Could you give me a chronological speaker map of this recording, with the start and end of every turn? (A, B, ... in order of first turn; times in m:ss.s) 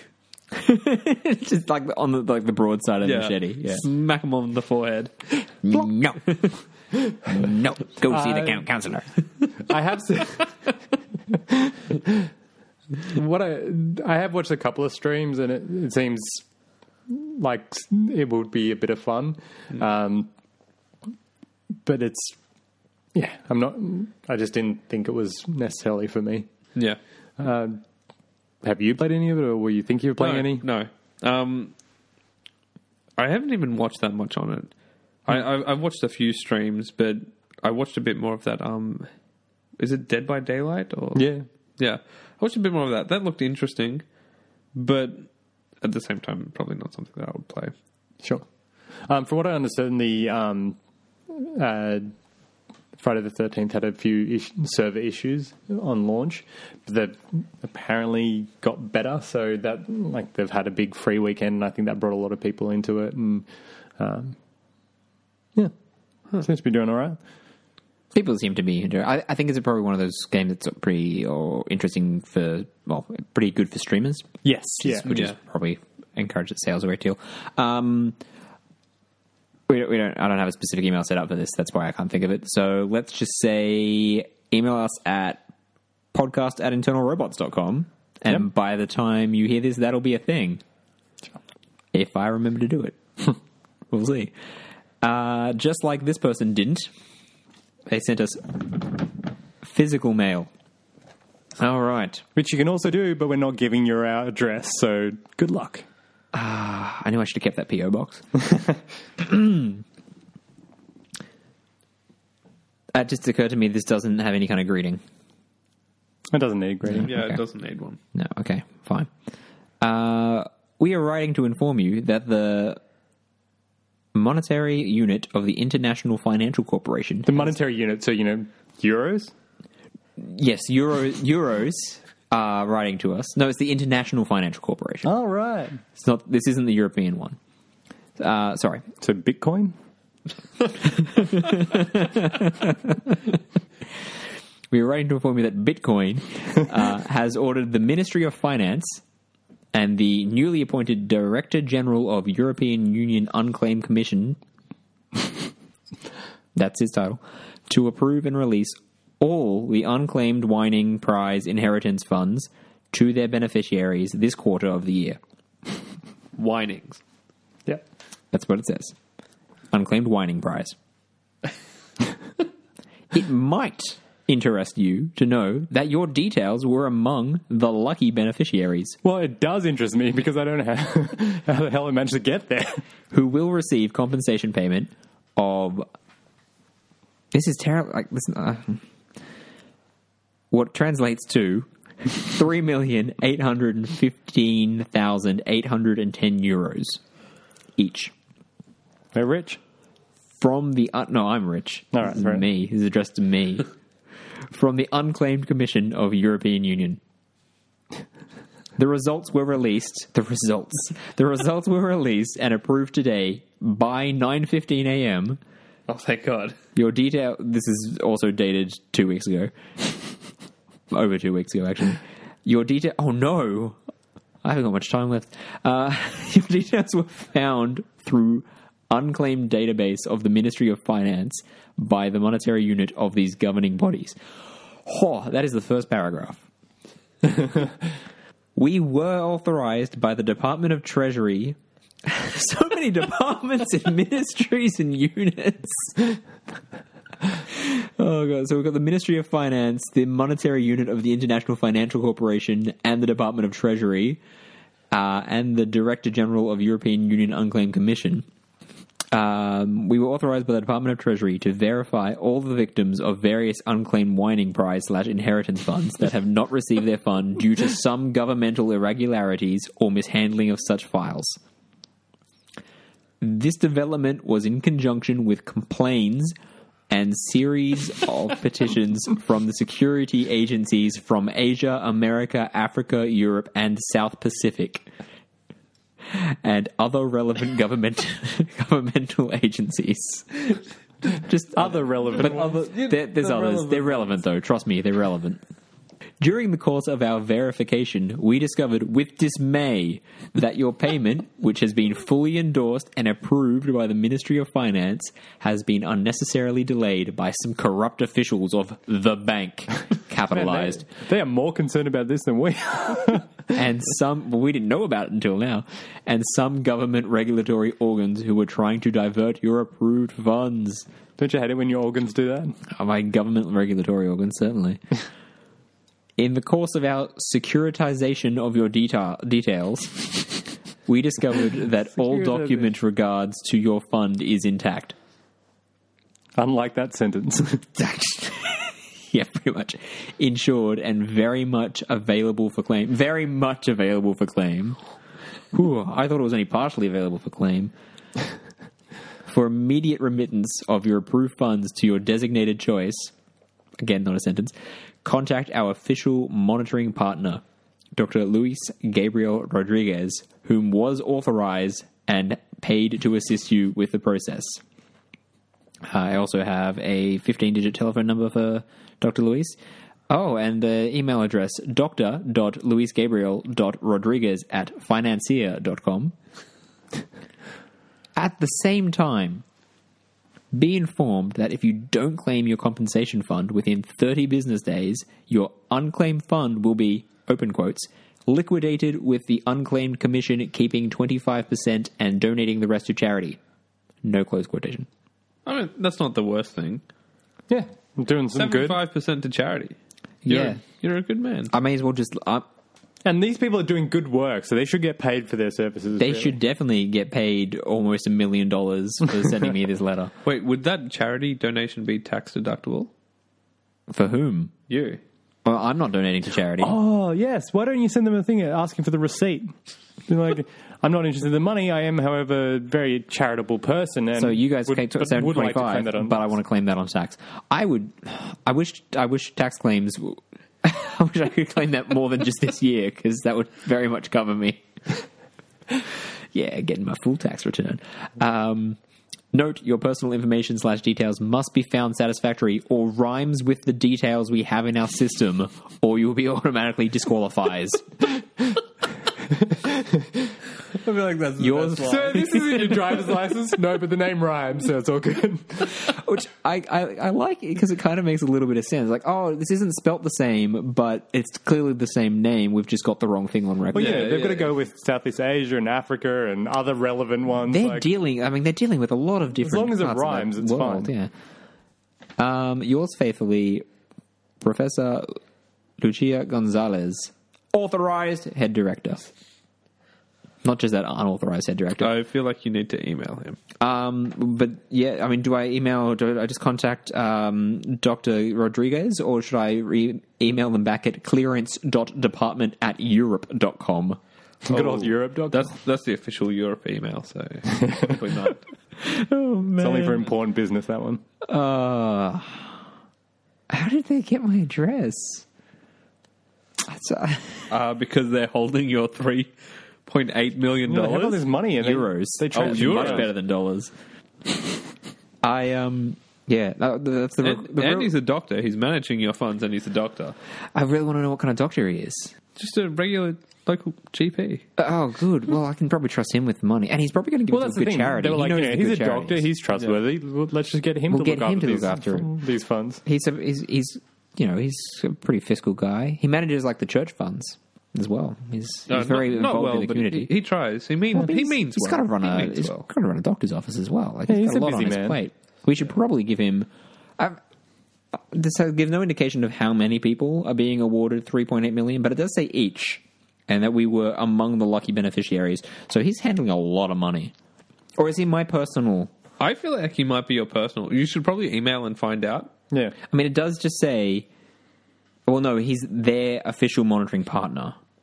0:00.5-0:03.8 A
0:03.0-0:05.1 B
0:05.6-0:06.6 A
0:07.3-0:09.1 A
0:08.1-0:08.6 C
0:09.6-0:10.6 C
0:11.3-0:12.3 C
0:13.0-0:16.4 C
0:17.1-0:20.3 C
0:21.8-0:22.4 C
0:23.1-0:26.5 C
0:27.4-0:27.8 C
0:28.6-0:30.6 C
0:30.2-0:31.7 B
0:33.2-0:34.7 B
0:35.2-0:39.1 B
0:39.8-0:44.0 B
0:41.1-0:41.4 C
0:44.7-0:45.3 B
0:45.8-0:47.7 B
0:49.0-0:50.8 C
0:51.3-0:52.1 C
0:53.0-1:03.4 C
1:04.0-1:04.4 C
1:06.4-1:07.2 C
1:08.1-1:18.2 A
1:14.4-1:15.1 C
1:19.7-1:25.4 A
1:26.1-1:30.6 A
1:31.9-1:33.3 A
1:33.9-1:34.3 A
1:35.0-1:36.9 A
1:37.9-1:39.1 A
1:39.6-1:40.5 A
1:41.6-1:42.2 A
1:42.3-1:45.8 C
1:46.3-1:48.2 A
1:49.2-1:49.8 A
1:52.9-1:55.0 A
1:56.3-1:57.1 C
1:56.8-1:57.4 A
1:57.0-1:58.0 B
1:58.1-1:59.1 A
1:59.8-2:02.8 A
2:04.1-2:07.5 A
2:07.2-2:09.3 C
2:10.2-2:15.1 A
2:15.0-2:15.8 C
2:15.9-2:17.4 A
2:18.2-2:18.8 A
2:19.0-2:19.7 C
2:20.9-2:23.3 A
2:24.7-2:29.0 A
2:29.7-2:34.4 A
2:36.6-2:45.2 A
2:46.4-2:47.0 B
2:48.3-2:48.9 A
2:49.7-2:50.7 A
2:53.1-2:59.0 A
2:59.0-3:02.8 C
3:03.1-3:05.9 A
3:07.3-3:08.8 A
3:10.5-3:17.0 A
3:17.8-3:18.1 A
3:19.1-3:19.6 C
3:20.4-3:23.7 A
3:21.9-3:22.4 C
3:24.5-3:27.0 A
3:28.8-3:35.4 A
3:35.9-3:36.6 B
3:36.7-3:39.5 A
3:40.9-3:43.8 A
3:44.4-3:54.2 A
3:54.8-3:56.4 A
3:58.6-4:06.2 A
4:07.5-4:14.2 A
4:14.9-4:18.2 A
4:19.1-4:31.4 A
4:33.2-4:36.3 A
4:36.9-4:44.9 A
4:46.1-4:55.4 A
4:51.5-4:52.6 C
4:52.1-4:54.0 B
4:56.2-5:10.8 A
5:10.3-5:13.3 C
5:13.5-5:20.8 A
5:21.2-5:22.6 C
5:22.7-5:24.8 A
5:26.2-5:34.9 A
5:32.0-5:32.7 C
5:36.4-5:37.6 C
5:37.8-5:44.8 A
5:45.5-5:47.7 A
5:49.2-5:53.1 A
5:53.8-5:57.4 A
5:58.0-6:04.6 A
6:05.8-6:09.6 A
6:10.1-6:16.1 A
6:18.2-6:19.4 A
6:20.5-6:33.4 A
6:34.0-6:34.9 A
6:35.4-6:36.8 B
6:37.5-6:38.8 C
6:38.3-6:39.8 B
6:40.2-6:40.6 A
6:40.3-6:41.5 B
6:41.5-6:42.5 A
6:43.0-6:46.4 C
6:46.0-6:50.1 A
6:50.2-6:52.9 B
6:53.9-6:54.5 A
6:54.7-6:55.0 B
6:55.4-6:56.8 A
6:56.6-6:59.5 C
7:00.1-7:06.3 C
7:04.2-7:14.6 A
7:16.3-7:18.8 A
7:19.3-7:27.9 A
7:29.5-7:30.3 C
7:30.8-7:32.7 B
7:31.4-7:32.7 A
7:31.8-7:35.8 C
7:35.7-7:44.2 A
7:43.7-7:47.9 C
7:43.7-7:44.5 B
7:47.5-7:51.1 A
7:49.4-7:50.9 C
7:52.2-7:53.6 A
7:54.4-7:55.2 A
7:55.8-7:59.1 A
8:00.4-8:01.9 A
8:01.8-8:03.4 B
8:03.6-8:14.0 A
8:14.4-8:15.6 C
8:14.5-8:18.4 B
8:18.8-8:20.1 A
8:19.6-8:21.0 C
8:21.2-8:22.5 A
8:23.5-8:25.2 A
8:26.6-8:27.5 A
8:27.5-8:29.3 B
8:29.8-8:31.2 B
8:30.6-8:33.1 C
8:31.6-8:33.7 A
8:32.3-8:33.1 B
8:35.2-8:37.9 A
8:37.2-8:40.2 B
8:40.5-8:42.1 A
8:42.4-8:44.4 B
8:44.6-8:49.3 A
8:47.3-8:52.8 C
8:50.9-8:52.1 A
8:52.8-9:00.1 A
8:58.7-9:02.6 B
9:00.9-9:07.2 A
9:04.1-9:05.0 C
9:07.9-9:17.1 A
9:17.8-9:18.9 A
9:19.2-9:22.3 B
9:22.5-9:22.8 C
9:22.9-9:24.1 A
9:25.1-9:27.6 A